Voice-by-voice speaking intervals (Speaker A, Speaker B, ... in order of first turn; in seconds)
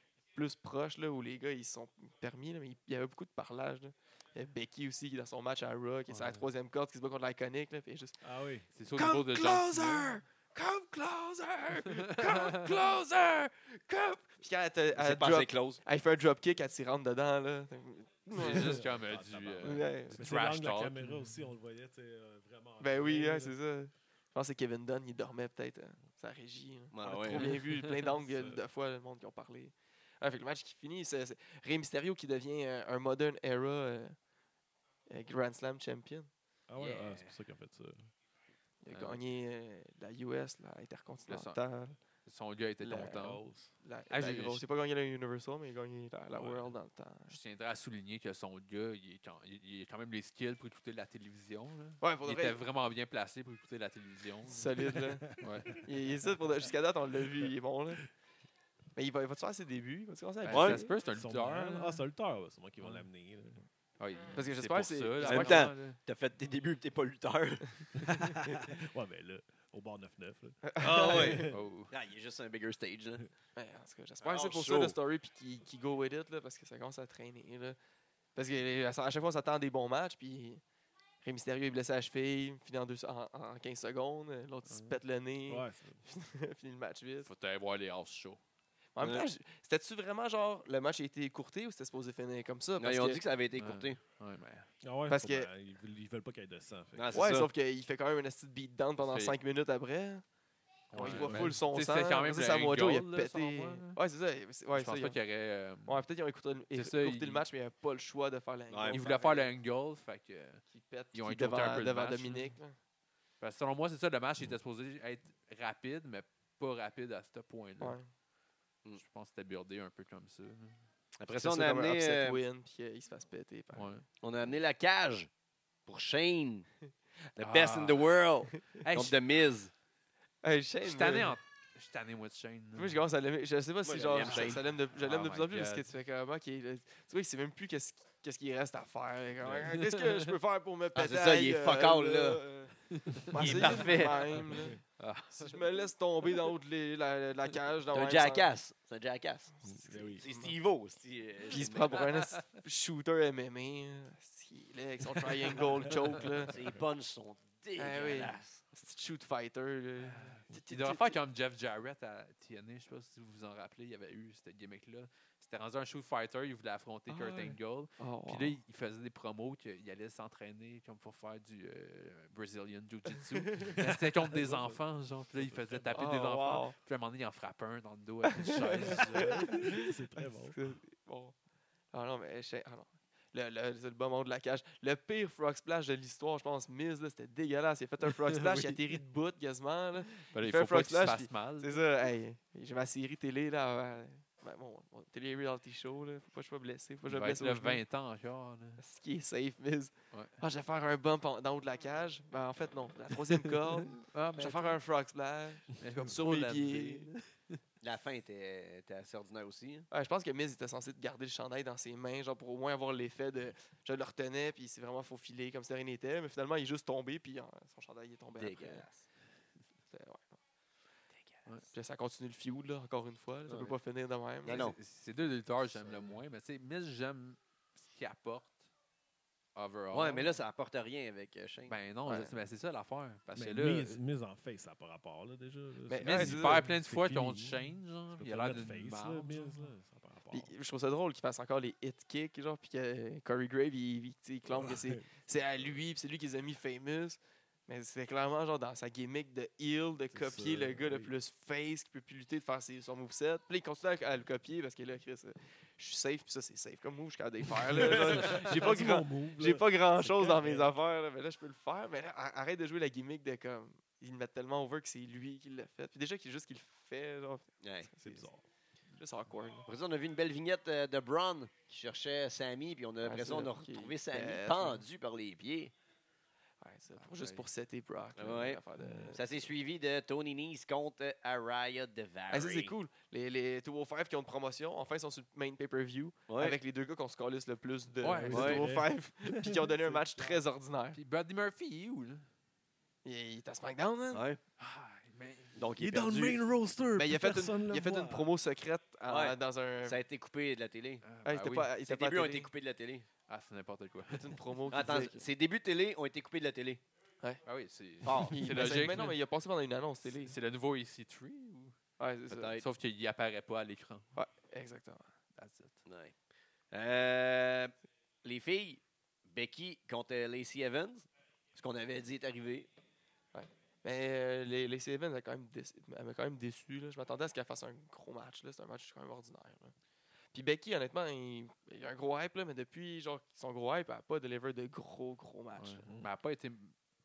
Speaker A: 0.3-8.2, 8.9-18.8, 19.6-20.2, 22.8-34.1, 35.1-36.3, 38.8-42.0, 42.8-43.2, 43.8-47.3, 52.0-52.6, 54.5-58.0, 59.0-60.9, 64.3-65.7, 70.6-71.4, 73.5-77.8, 78.3-80.6, 81.2-87.3, 88.9-93.2, 95.1-95.5, 97.1-100.2, 100.9-105.2, 105.8-109.5, 110.7-112.8, 117.8-118.1, 121.3-123.9, 130.4-131.4, 132.8-144.8, 145.3-148.5, 149.8-150.5, 151.5-156.6, 157.8-161.2, 167.1-168.6, 173.3-173.8, 175.9-176.7, 178.3-179.9, 180.4-181.3, 181.9-197.8, 198.8-207.1, 209.9-218.9, 219.9-220.4, 221.7-224.7, 232.1-232.3, 235.9-236.7, 240.3-268.3, 268.9-269.7, 273.0-274.8, 276.6-279.2, 282.3-291.0, 293.0-294.2, 296.9-300.0, 301.2-302.5, 304.1-305.2, 308.2-310.4, 312.0-312.5, 314.1-315.1, 323.3-329.7, 330.3-335.9
Speaker B: 6.1-6.5, 8.7-10.1, 12.2-12.7, 18.4-21.4, 36.8-37.4, 38.9-39.2, 41.3-41.6, 42.2-43.4, 44.1-44.6, 47.3-55.9, 60.4-62.0, 62.8-63.0, 64.0-66.0, 71.3-71.9, 84.7-85.0, 87.2-88.4, 93.5-94.7, 99.0-99.3, 100.9-104.0, 104.7-106.0, 106.7-107.4, 108.9-110.6, 111.1-112.5, 113.4-118.0, 118.9-120.8, 123.7-124.0, 127.4-128.1, 128.8-129.2, 130.8-133.0, 134.2-135.9, 139.4-140.3, 142.9-143.8, 145.0-145.6, 152.0-152.4, 160.0-179.6, 190.3-191.8, 197.1-198.8, 200.1-200.4, 204.0-204.8, 205.8-207.6, 224.4-228.6, 229.5-230.4, 231.7-234.0, 236.0-239.7, 277.0-277.4, 288.0-288.7, 290.9-292.2, 294.6-295.6, 301.0-301.7, 303.3-304.4, 307.4-309.2, 310.1-311.8, 312.6-314.1, 315.3-315.8, 335.6-336.8
Speaker C: 8.2-8.7, 18.3-23.5, 28.2-28.6, 36.7-38.1, 43.0-43.7, 61.1-63.6, 68.1-71.6, 85.5-86.0, 94.8-97.3, 101.0-101.6, 144.4-144.8, 149.6-150.2, 173.8-174.8, 175.4-176.0, 178.8-180.6, 233.3-237.6, 238.1-240.5, 244.5-245.1, 250.1-251.1, 257.6-260.7, 268.0-268.4, 278.8-279.1, 288.0-290.4, 295.8-298.3, 335.9-336.1
Speaker D: 14.9-15.8, 26.9-27.5, 60.5-60.8, 65.2-68.7, 70.8-73.2, 74.2-75.0, 89.0-89.3, 92.8-94.0, 96.9-97.5, 108.7-109.0, 121.2-122.4, 124.2-125.3, 125.8-126.7, 127.3-129.7, 133.8-134.6, 140.9-142.4, 143.3-144.4, 147.9-149.5, 150.1-152.0, 156.5-158.6, 207.8-209.9, 218.4-219.1, 223.5-223.7, 224.4-224.8, 229.9-231.7, 267.6-267.9, 269.6-275.7, 278.2-278.6, 279.1-282.7, 286.3-286.6, 288.3-288.6, 294.1-294.4, 295.5-296.4, 299.1-301.0, 301.8-303.1, 304.7-306.8, 308.0-308.4, 312.3-312.6, 315.9-316.1, 316.7-317.7, 318.2-322.7